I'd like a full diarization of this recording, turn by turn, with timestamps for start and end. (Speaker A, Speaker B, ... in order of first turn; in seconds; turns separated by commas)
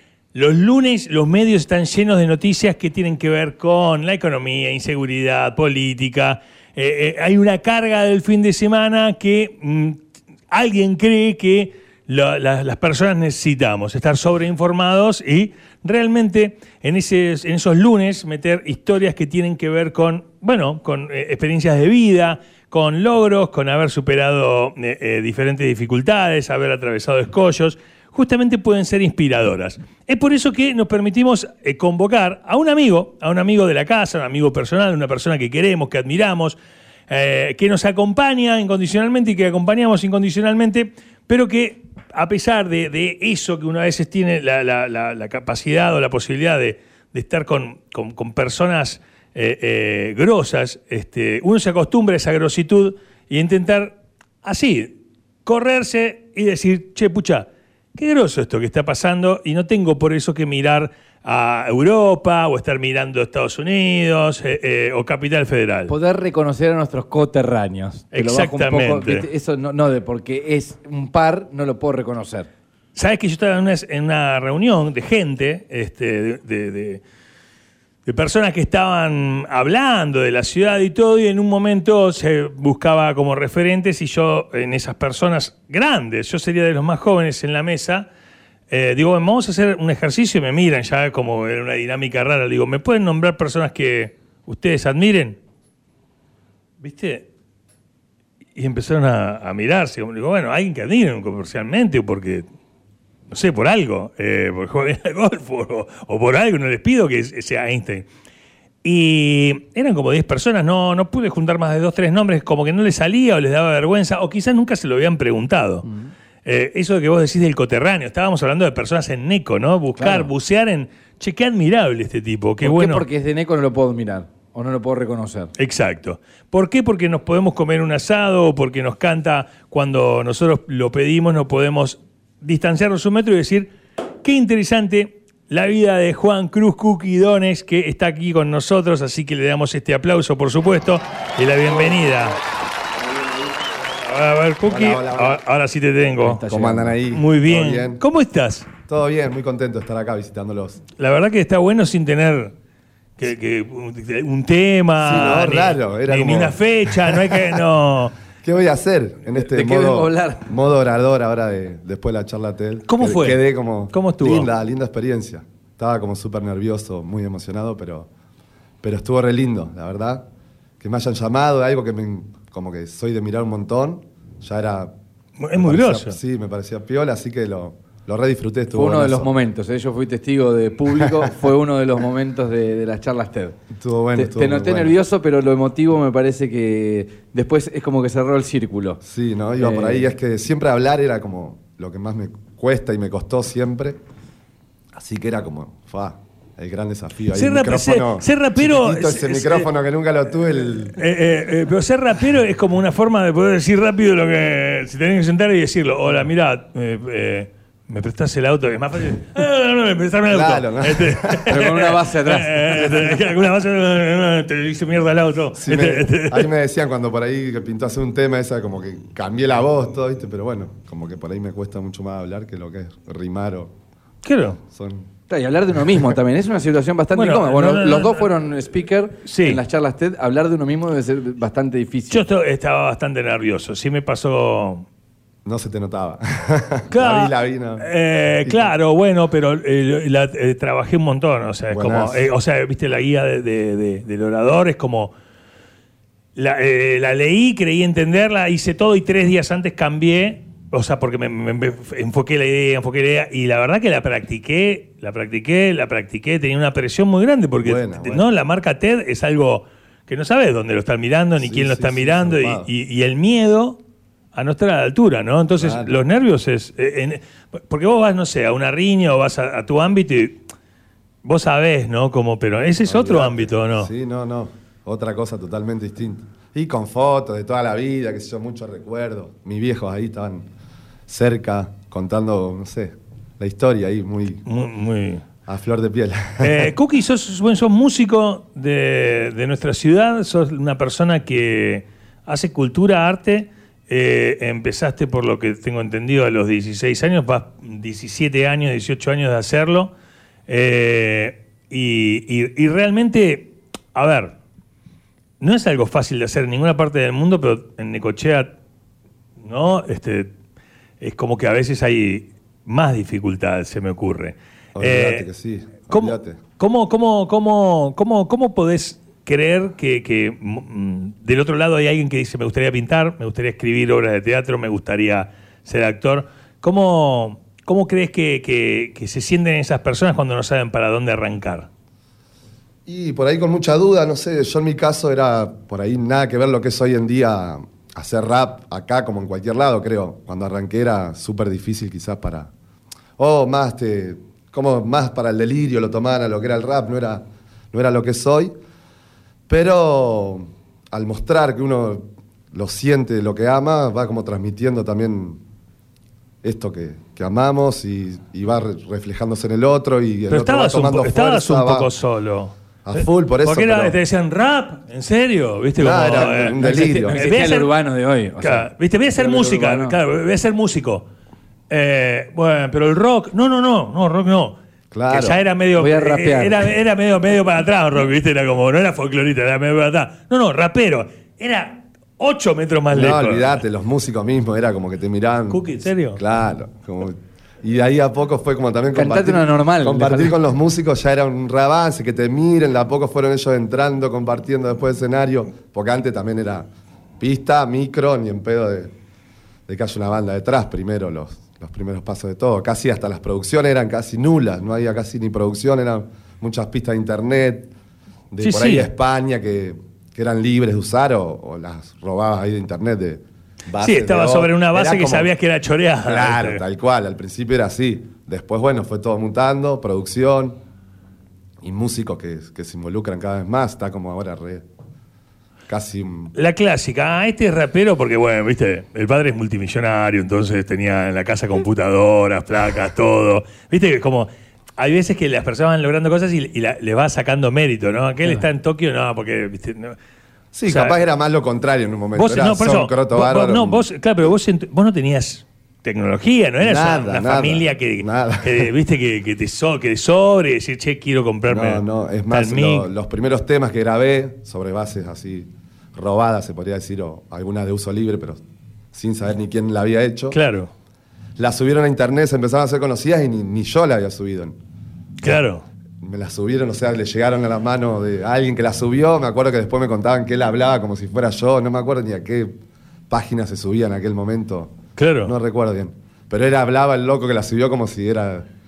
Speaker A: 0.3-36.6, Speaker A: 37.1-65.9, Speaker B: 65.9-72.5, Speaker A: 68.1-69.3, Speaker A: 73.0-77.0, Speaker A: 78.1-88.1, Speaker A: 88.7-95.4, Speaker A: 96.8-97.3, Speaker A: 98.6-102.5, Speaker A: 103.3-108.1, Speaker A: 108.8-115.9, Speaker A: 116.5-123.0, Speaker B: 120.0-120.3, Speaker B: 122.6-125.5, Speaker A: 125.6-142.4, Speaker A: 144.0-146.4, Speaker C: 144.7-145.4, Speaker B: 146.2-147.0, Speaker C: 146.5-148.0, Speaker A: 147.1-148.7, Speaker C: 148.9-150.8, Speaker A: 151.0-152.5, Speaker A: 153.2-158.2, Speaker C: 155.0-157.6, Speaker C: 158.4-168.1, Speaker B: 159.3-160.5, Speaker A: 162.9-164.5, Speaker C: 168.8-170.2, Speaker C: 170.8-174.9, Speaker A: 175.4-176.2, Speaker C: 175.6-179.3, Speaker B: 178.7-183.6, Speaker C: 181.0-181.3, Speaker C: 183.7-184.9, Speaker B: 184.2-189.0, Speaker C: 189.0-194.0, Speaker B: 189.6-190.1, Speaker C: 194.9-201.0, Speaker A: 197.3-199.7, Speaker A: 200.9-216.5, Speaker C: 210.3-211.5, Speaker B: 211.5-213.2, Speaker C: 215.6-223.7, Speaker A: 224.2-224.6, Speaker C: 224.7-225.1, Speaker B: 225.3-232.2, Speaker A: 227.1-228.3, Speaker A: 229.2-229.6, Speaker A: 232.1-234.9, Speaker C: 235.4-237.9, Speaker A: 236.9-245.1, Speaker C: 238.4-238.7, Speaker C: 241.7-242.3, Speaker A: 246.4-263.8, Speaker C: 257.6-258.2, Speaker C: 261.4-262.7, Speaker A: 264.3-270.4, Speaker C: 265.6-266.0, Speaker A: 271.2-273.9, Speaker C: 272.9-280.5, Speaker C: 281.1-284.4, Speaker A: 284.5-285.2, Speaker C: 285.5-286.7, Speaker A: 286.4-299.9, Speaker A: 300.5-304.4, Speaker A: 305.4-308.5, Speaker A: 309.4-310.3, Speaker A: 311.0-315.3, Speaker C: 314.8-316.4, Speaker A: 315.9-331.7, Speaker C: 332.9-342.5, Speaker C: 343.2-348.5, Speaker C: 349.5-355.4, Speaker C: 356.4-361.9, Speaker A: 360.3-367.7, Speaker C: 362.8-364.0, Speaker C: 365.8-367.2, Speaker B: 366.1-370.0, Speaker A: 368.4-371.1, Speaker A: 371.7-374.6, Speaker C: 374.9-375.4, Speaker A: 375.1-383.6, Speaker B: 375.8-376.7, Speaker C: 382.9-396.7, Speaker A: 385.5-386.2, Speaker B: 388.9-390.4, Speaker C: 397.2-398.9, Speaker C: 399.7-407.7, Speaker C: 408.3-415.3, Speaker A: 408.4-408.9, Speaker A: 413.8-416.6, Speaker C: 416.0-420.6, Speaker C: 421.6-424.6, Speaker C: 425.7-426.3, Speaker A: 426.3-440.0, Speaker C: 440.5-443.9, Speaker A: 440.7-441.0, Speaker A: 442.2-452.9, Speaker C: 446.6-448.7, Speaker C: 451.5-458.4, Speaker C: 458.9-460.4, Speaker A: 460.3-460.7, Speaker C: 461.4-464.6, Speaker A: 465.2-465.6, Speaker C: 466.0-472.6, Speaker C: 473.1-478.5, Speaker A: 475.0-475.3